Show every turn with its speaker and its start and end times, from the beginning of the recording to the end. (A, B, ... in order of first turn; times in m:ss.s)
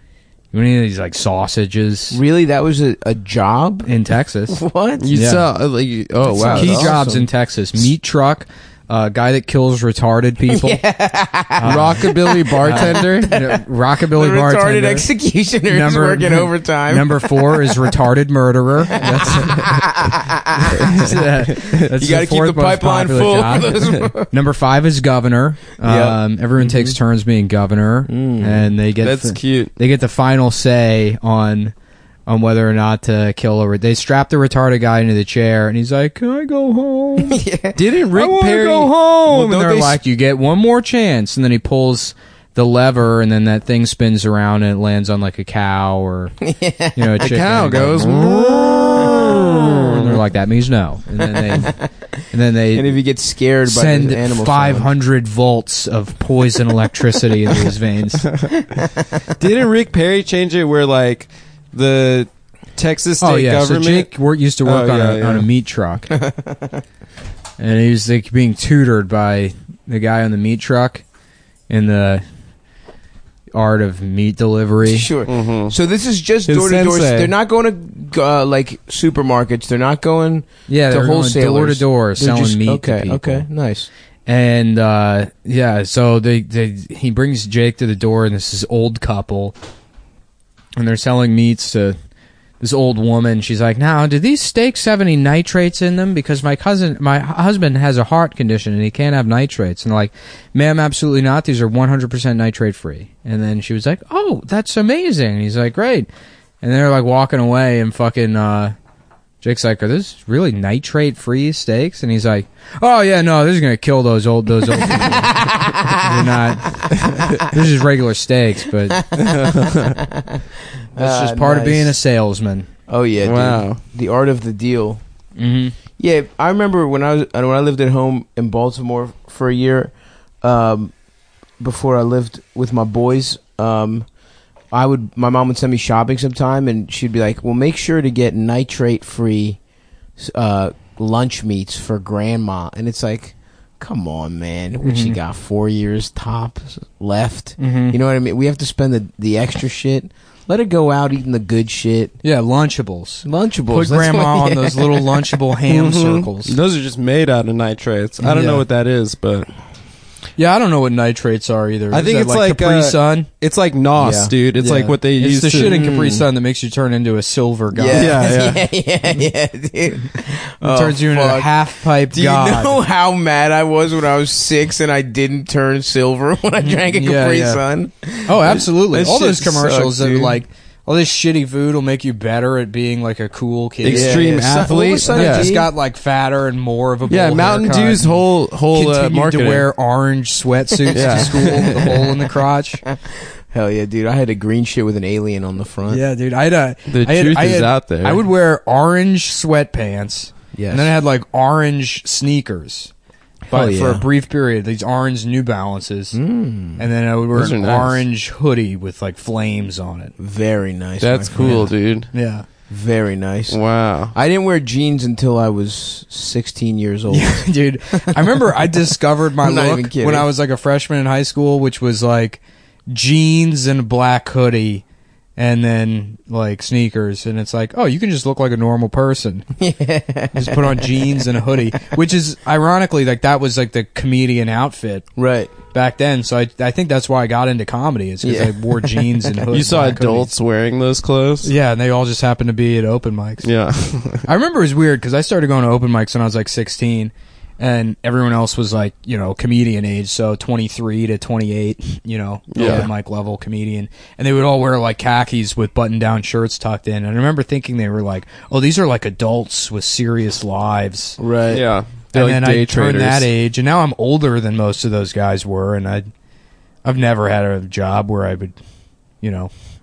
0:00.5-0:02.2 A
0:02.1-0:03.9 B
0:03.8-0:05.4 A
0:04.5-0:05.1 B
0:05.0-0:07.0 C
0:06.2-0:07.3 B
0:06.4-0:10.8 A
0:10.5-0:18.0 B
0:11.6-0:12.1 A
0:11.6-0:13.3 C
0:12.6-0:15.1 A
0:15.7-0:19.8 A
0:18.9-0:24.3 B
0:20.8-0:31.7 A
0:20.8-0:21.8 C
0:25.8-0:26.9 B
0:28.1-0:28.7 B
0:29.0-0:29.7 C
0:32.3-0:37.4 A
0:37.2-0:37.8 B
0:37.8-0:39.1 C
0:38.1-0:46.4 A
0:39.3-0:40.0 B
0:46.4-0:47.3 B
0:47.0-0:51.8 A
0:47.2-0:50.2 C
0:49.0-0:49.7 B
0:51.2-0:51.9 B
0:52.3-0:53.0 A
0:52.7-0:54.9 B
0:53.6-0:58.3 A
0:59.3-1:04.1 C
1:03.2-1:06.1 A
1:04.6-1:05.5 C
1:06.1-1:06.8 B
1:07.6-1:11.0 A
1:11.7-1:12.2 A
1:13.5-1:15.1 A
1:14.8-1:23.9 B
1:15.3-1:15.8 C
1:16.5-1:17.3 C
1:20.7-1:23.5 A
1:24.3-1:29.5 A
1:30.8-1:32.0 A
1:32.6-1:46.1 A
1:46.6-1:48.7 A
1:49.4-1:59.0 A
1:54.8-1:57.3 B
1:58.9-2:00.4 B
1:59.2-2:00.0 C
2:01.0-2:02.0 B
2:01.0-2:02.7 A
2:02.9-2:05.0 B
2:03.2-2:03.8 C
2:05.4-2:05.8 A
2:06.0-2:10.9 B
2:11.6-2:14.1 B
2:14.7-2:19.6 B
2:20.2-2:32.2 B
2:24.8-2:25.2 A
2:27.6-2:28.0 A
2:32.2-2:36.6 A
2:33.2-2:35.4 B
2:35.7-2:39.5 C
2:38.2-2:38.6 A
2:40.4-2:43.3 A
2:41.9-2:45.8 C
2:44.0-2:44.3 B
2:44.6-2:48.2 A
2:45.6-2:46.3 B
2:47.7-3:00.4 B
2:47.9-2:48.7 C
2:50.6-2:52.8 A
2:56.6-2:57.6 A
2:58.2-3:12.8 A
3:03.8-3:05.5 C
3:03.8-3:05.7 B
3:07.1-3:09.7 C
3:10.9-3:12.0 B
3:10.9-3:12.0 C
3:12.9-3:16.0 B
3:15.9-3:22.9 A
3:16.9-3:18.2 C
3:20.5-3:20.9 B
3:23.5-3:24.1 B
3:23.5-3:26.2 A
3:26.1-3:26.8 B
3:26.8-3:30.1 A
3:27.3-3:28.0 C
3:30.2-3:31.7 B
3:31.0-3:32.1 C
3:31.4-3:32.4 A
3:32.7-3:33.6 B
3:33.5-3:34.2 C
3:34.1-3:38.6 B
3:37.1-3:44.8 A
3:39.4-3:40.3 B
3:45.4-3:49.5 A
3:49.6-3:51.3 B
3:50.3-3:55.1 A
3:55.2-3:55.5 B
3:55.7-4:00.3 A
3:58.2-3:59.4 B
3:59.5-4:01.5 C
4:01.4-4:03.5 A
4:03.4-4:04.3 C
4:04.2-4:21.2 A
4:12.5-4:12.9 C
4:12.6-4:12.9 B
4:21.2-4:21.6 B
4:21.5-4:23.3 C
4:22.1-4:26.1 A
4:26.8-4:28.5 A
4:29.2-4:29.5 A